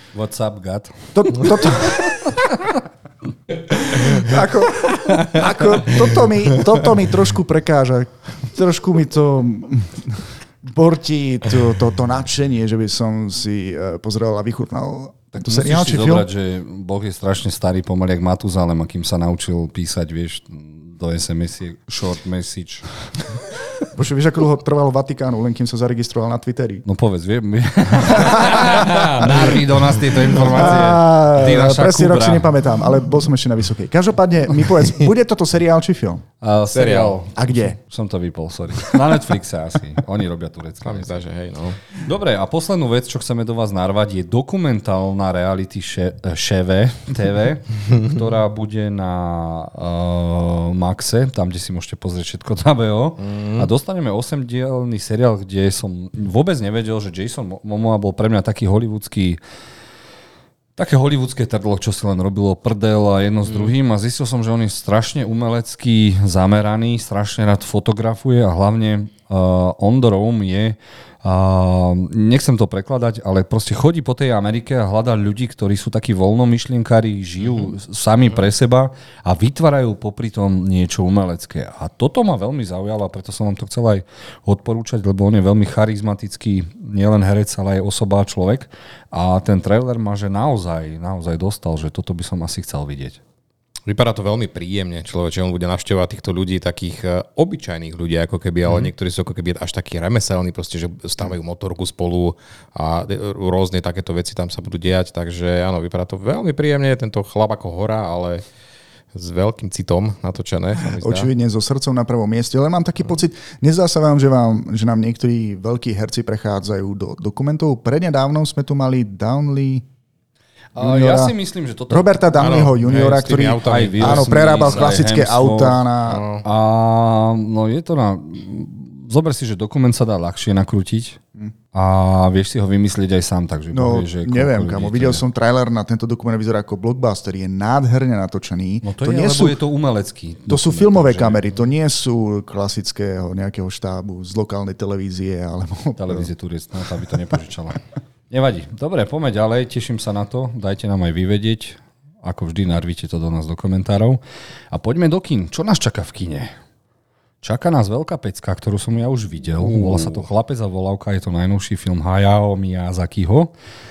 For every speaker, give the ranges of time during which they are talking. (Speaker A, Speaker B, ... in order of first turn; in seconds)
Speaker A: 0.1-2.8, 15.4-22.9, 26.9-32.5, 36.4-41.2, 41.9-59.4, 60.8-93.2, 98.7-98.9, 120.8-122.1, 123.6-125.9, 126.4-131.2, 131.7-135.2, 138.8-141.4, 146.0-156.5, 157.4-163.5
Speaker B: 1.1-2.2, 3.9-16.3, 23.9-26.8, 28.1-29.6, 30.3-36.2, 37.3-37.8, 111.0-119.9, 120.8-121.3, 121.9-126.2, 133.7-139.6, 140.5-146.3
Speaker C: 28.5-30.4, 36.7-37.2, 40.8-41.8, 53.2-53.7, 93.9-108.4, 109.1-111.3, 122.4-124.9, 126.1-126.5, 159.8-160.0